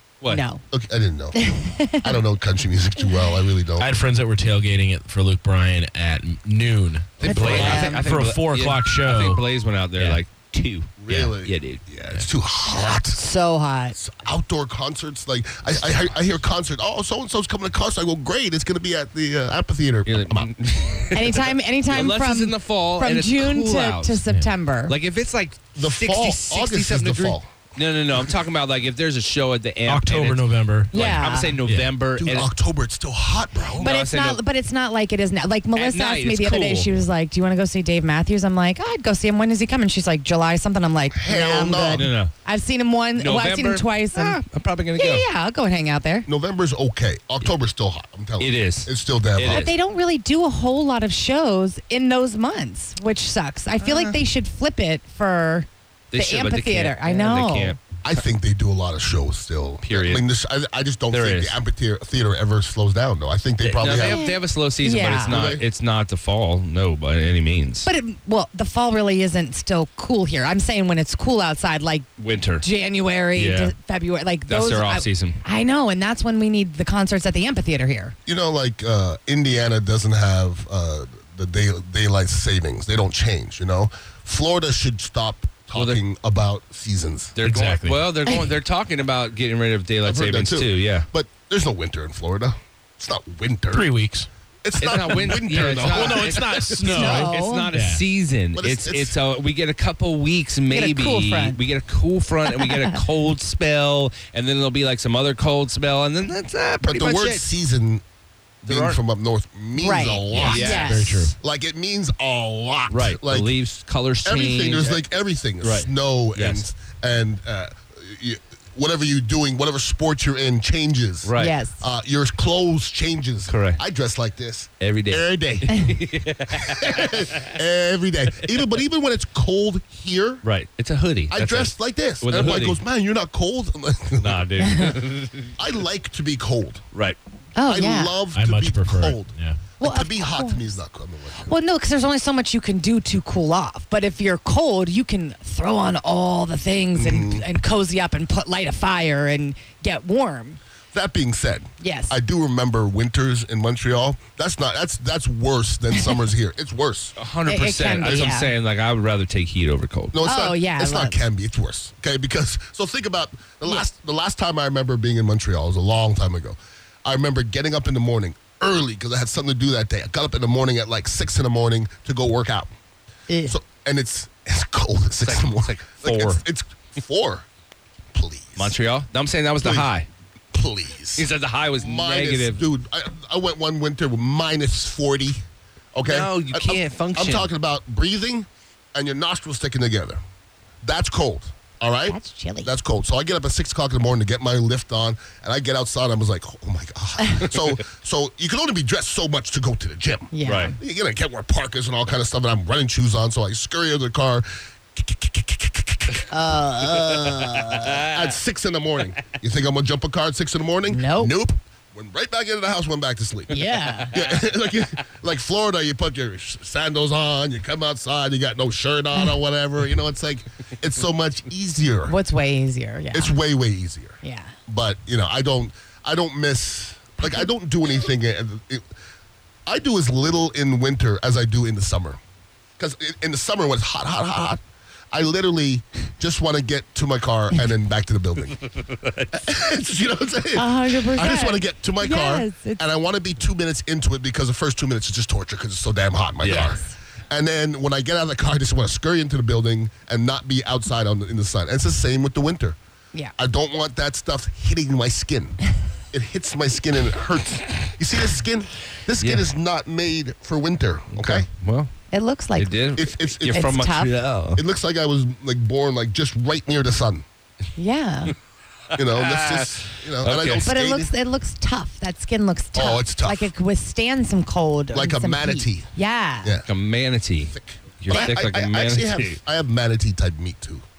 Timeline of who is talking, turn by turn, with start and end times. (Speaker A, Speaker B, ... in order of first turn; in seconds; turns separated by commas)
Speaker A: 0.3-0.6, Speaker B: 0.7-1.4, Speaker A: 1.4-2.2, Speaker B: 2.0-3.9, Speaker C: 3.8-9.4, Speaker D: 7.2-11.8, Speaker A: 7.2-8.1, Speaker B: 11.0-13.2, Speaker C: 11.1-11.3, Speaker A: 13.1-14.0, Speaker B: 13.9-20.5, Speaker D: 20.1-24.2, Speaker A: 21.1-25.0, Speaker D: 24.9-32.5, Speaker B: 25.8-27.5, Speaker C: 29.9-31.9, Speaker A: 30.9-31.6, Speaker B: 32.2-33.9, Speaker D: 33.7-34.4, Speaker A: 33.8-44.4, Speaker D: 35.8-37.0, Speaker B: 41.1-42.1, Speaker D: 41.9-42.3, Speaker D: 43.2-45.2, Speaker A: 45.0-46.3, Speaker B: 46.3-49.7, Speaker D: 48.4-49.7, Speaker A: 49.5-57.8, Speaker D: 53.8-54.2, Speaker D: 56.1-57.8, Speaker B: 58.0-64.2, Speaker D: 59.8-60.2, Speaker D: 61.1-61.6, Speaker D: 63.6-67.9, Speaker A: 63.8-65.4, Speaker B: 65.3-65.7, Speaker A: 67.9-72.1, Speaker D: 72.2-72.7, Speaker A: 72.6-78.2, Speaker D: 73.3-73.7, Speaker D: 74.5-75.4, Speaker B: 78.3-87.4, Speaker D: 85.7-86.0, Speaker D: 87.3-91.1, Speaker C: 87.4-88.0, Speaker B: 90.0-93.9, Speaker C: 93.7-94.3, Speaker B: 94.6-97.2, Speaker D: 94.8-107.5, Speaker C: 95.1-98.0, Speaker A: 96.9-97.7, Speaker B: 98.6-99.2, Speaker A: 100.7-101.6, Speaker B: 106.8-108.0, Speaker D: 108.7-109.0, Speaker B: 108.7-113.5, Speaker A: 109.8-111.2, Speaker D: 110.3-111.2, Speaker C: 110.5-111.3, Speaker D: 112.9-115.0, Speaker B: 114.2-125.8, Speaker D: 115.6-116.7, Speaker D: 121.2-121.6, Speaker A: 121.4-121.8, Speaker D: 123.5-123.8, Speaker D: 124.8-127.5, Speaker B: 126.5-130.4, Speaker D: 130.4-132.8, Speaker B: 131.3-134.5, Speaker D: 134.2-135.5, Speaker A: 134.6-134.9, Speaker B: 135.6-136.8, Speaker A: 137.6-138.2, Speaker B: 137.7-141.6, Speaker C: 138.3-139.6, Speaker A: 139.8-140.7, Speaker A: 141.4-150.6, Speaker B: 146.9-147.5, Speaker B: 150.9-157.2, Speaker A: 151.8-152.2, Speaker D: 157.2-160.1, Speaker A: 157.5-158.5, Speaker B: 158.0-158.3, Speaker B: 160.1-172.7, Speaker A: 160.2-161.2, Speaker A: 173.3-173.6, Speaker B: 173.5-177.5, Speaker D: 175.2-176.4, Speaker B: 178.1-178.7, Speaker D: 178.6-180.1, Speaker B: 179.6-179.9, Speaker B: 180.5-185.4, Speaker D: 181.2-182.7, Speaker B: 185.9-190.2, Speaker D: 186.0-187.5, Speaker B: 190.8-206.3, Speaker A: 192.1-192.7, Speaker A: 200.3-200.8, Speaker D: 200.5-200.7, Speaker A: 206.3-208.1, Speaker D: 207.2-207.6, Speaker B: 208.0-222.2, Speaker A: 210.9-211.3, Speaker A: 213.5-214.2, Speaker D: 214.0-214.4, Speaker A: 222.1-223.4, Speaker B: 223.1-228.9, Speaker A: 224.2-224.5, Speaker A: 227.2-227.5, Speaker B: 229.7-232.2, Speaker B: 232.8-234.6, Speaker B: 235.1-238.6, Speaker D: 238.7-239.3, Speaker B: 239.3-252.8, Speaker A: 240.5-242.8, Speaker D: 246.4-246.8, Speaker A: 246.7-246.9, Speaker B: 253.4-261.5, Speaker D: 259.2-259.5, Speaker D: 261.1-261.9, Speaker A: 262.1-262.8, Speaker D: 262.6-264.6, Speaker B: 263.0-263.7, Speaker A: 263.5-264.1, Speaker B: 264.6-267.2, Speaker A: 267.8-268.3, Speaker D: 268.9-270.7, Speaker B: 268.9-271.1, Speaker A: 270.7-276.5, Speaker B: 272.7-273.5, Speaker B: 274.9-275.9, Speaker D: 276.6-279.4, Speaker B: 277.5-280.9